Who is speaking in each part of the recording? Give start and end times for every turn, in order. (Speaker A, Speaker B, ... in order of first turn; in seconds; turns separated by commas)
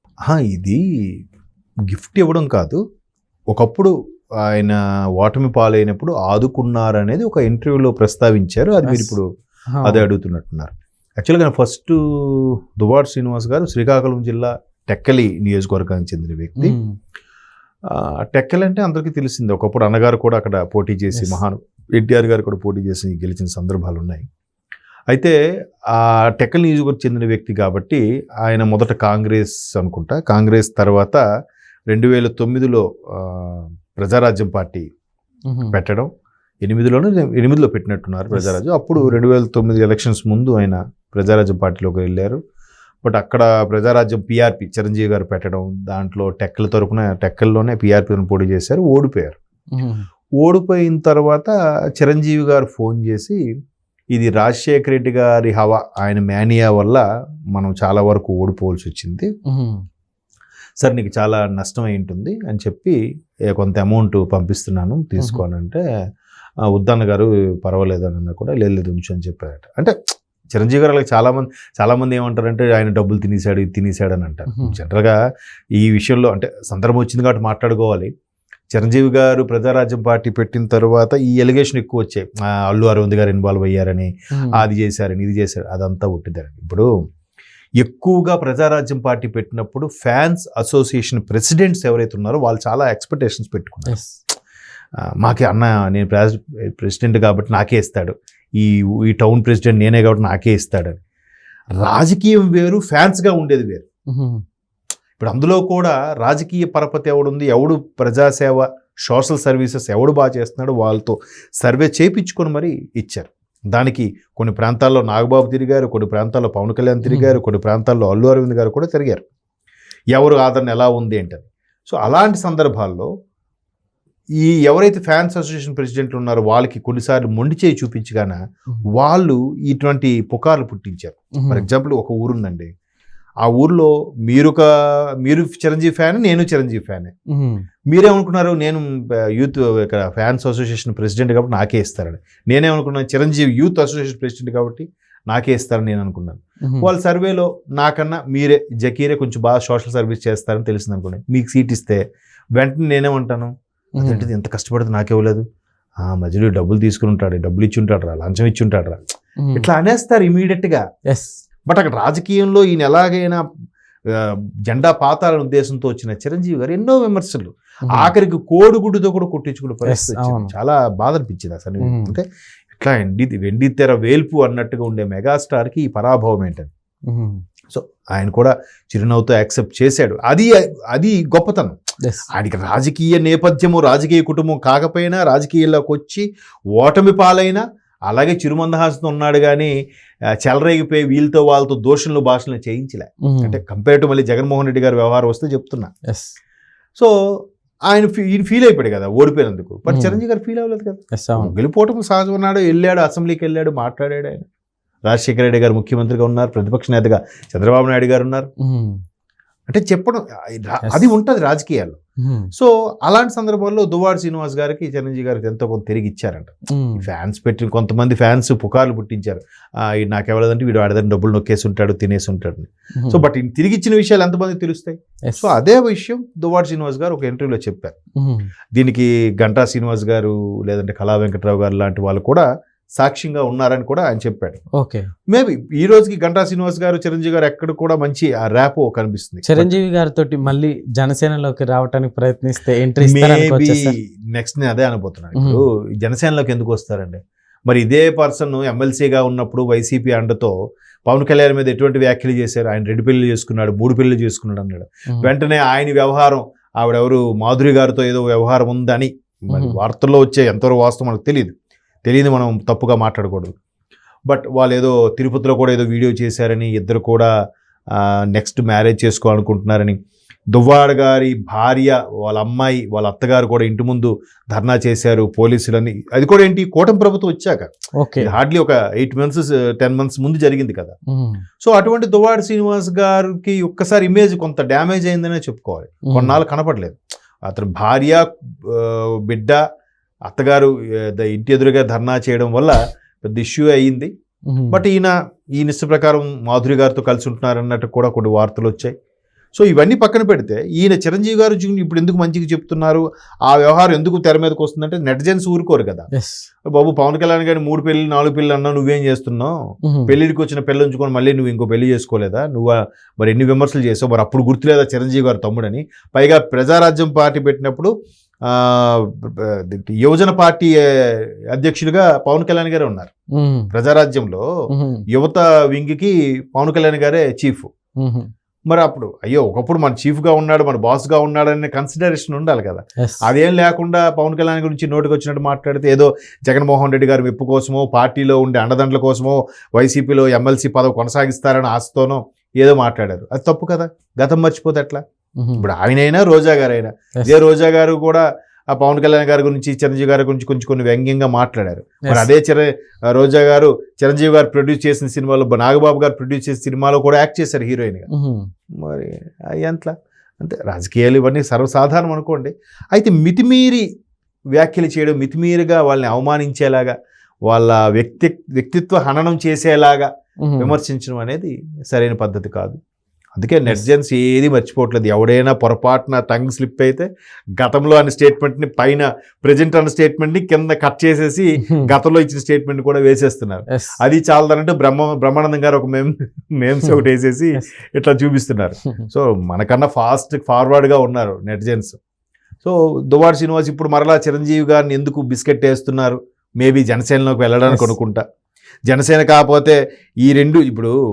Speaker A: 0.2-0.8, Speaker A: 1.9-2.8, Speaker A: 3.5-3.9, Speaker A: 4.5-9.2, Speaker B: 8.8-9.2, Speaker B: 9.7-10.1, Speaker A: 9.8-16.8, Speaker B: 16.6-16.9, Speaker A: 17.9-24.2, Speaker B: 21.1-21.4, Speaker A: 25.1-25.4, Speaker A: 25.9-31.2, Speaker A: 31.9-34.8, Speaker B: 35.5-35.8, Speaker A: 35.7-36.1, Speaker A: 36.6-42.4, Speaker B: 38.3-39.1, Speaker A: 43.0-49.4, Speaker B: 49.7-50.0, Speaker A: 50.4-53.4, Speaker A: 54.1-57.0, Speaker A: 57.5-59.3, Speaker B: 59.5-59.8, Speaker A: 60.8-63.0, Speaker A: 63.5-65.8, Speaker B: 65.2-65.4, Speaker A: 66.7-70.0, Speaker A: 70.5-75.2, Speaker B: 74.5-74.8, Speaker A: 75.8-78.1, Speaker A: 78.7-86.9, Speaker B: 84.3-84.6, Speaker A: 87.8-94.0, Speaker B: 93.9-94.1, Speaker A: 95.2-101.0, Speaker A: 101.8-103.8, Speaker B: 104.1-104.4, Speaker A: 105.2-119.2, Speaker B: 117.0-117.4, Speaker A: 120.1-123.1, Speaker A: 124.4-128.4, Speaker A: 128.9-132.7, Speaker B: 131.4-131.7, Speaker A: 133.4-134.7, Speaker A: 135.2-137.1, Speaker B: 137.3-137.6, Speaker A: 137.9-152.0, Speaker B: 146.6-146.9, Speaker A: 152.6-155.4, Speaker B: 154.0-154.3, Speaker A: 156.0-159.0, Speaker B: 159.4-159.7, Speaker A: 159.6-160.8, Speaker B: 161.1-161.3, Speaker A: 161.7-163.4, Speaker A: 164.1-176.7, Speaker B: 167.9-168.1, Speaker B: 169.8-170.5, Speaker B: 171.8-172.2, Speaker B: 177.1-177.4, Speaker A: 177.7-181.8, Speaker A: 182.3-189.7, Speaker A: 190.4-195.9, Speaker B: 193.2-193.6, Speaker B: 196.1-196.4, Speaker A: 197.9-204.4, Speaker B: 199.9-200.2, Speaker B: 201.1-201.5, Speaker A: 205.1-208.5, Speaker B: 208.6-209.0, Speaker A: 209.7-212.0, Speaker B: 210.8-211.1, Speaker B: 212.2-212.5, Speaker A: 212.5-228.0, Speaker B: 216.7-217.0, Speaker B: 223.0-223.2, Speaker B: 225.2-225.5, Speaker B: 228.2-228.5, Speaker A: 228.8-232.4, Speaker A: 233.0-234.6, Speaker B: 234.8-235.1, Speaker A: 235.3-239.8, Speaker B: 239.4-243.9, Speaker A: 243.0-250.5, Speaker B: 245.3-245.6, Speaker A: 251.1-261.5, Speaker B: 259.5-259.8, Speaker A: 262.0-263.5, Speaker A: 264.3-267.3, Speaker A: 267.9-270.0, Speaker A: 270.5-280.9, Speaker B: 278.0-278.3, Speaker B: 281.1-281.4, Speaker A: 281.6-289.6, Speaker B: 286.1-286.4, Speaker A: 290.3-294.1, Speaker B: 294.5-294.8, Speaker A: 294.7-298.9, Speaker A: 299.5-306.1, Speaker B: 306.1-306.5, Speaker A: 306.6-317.9, Speaker B: 309.8-310.1, Speaker A: 318.4-323.1, Speaker B: 323.3-323.7, Speaker A: 323.7-324.4, Speaker B: 324.7-325.1, Speaker A: 325.1-327.7, Speaker B: 328.0-328.3, Speaker A: 328.7-345.0, Speaker B: 333.0-333.3, Speaker B: 345.4-345.6, Speaker A: 345.6-358.1, Speaker B: 352.0-352.3, Speaker B: 358.1-358.5, Speaker A: 358.8-363.8, Speaker A: 364.5-366.9, Speaker A: 367.5-370.1, Speaker B: 370.4-370.7, Speaker A: 370.6-372.8, Speaker A: 373.4-392.0, Speaker A: 392.6-398.2, Speaker A: 398.9-400.9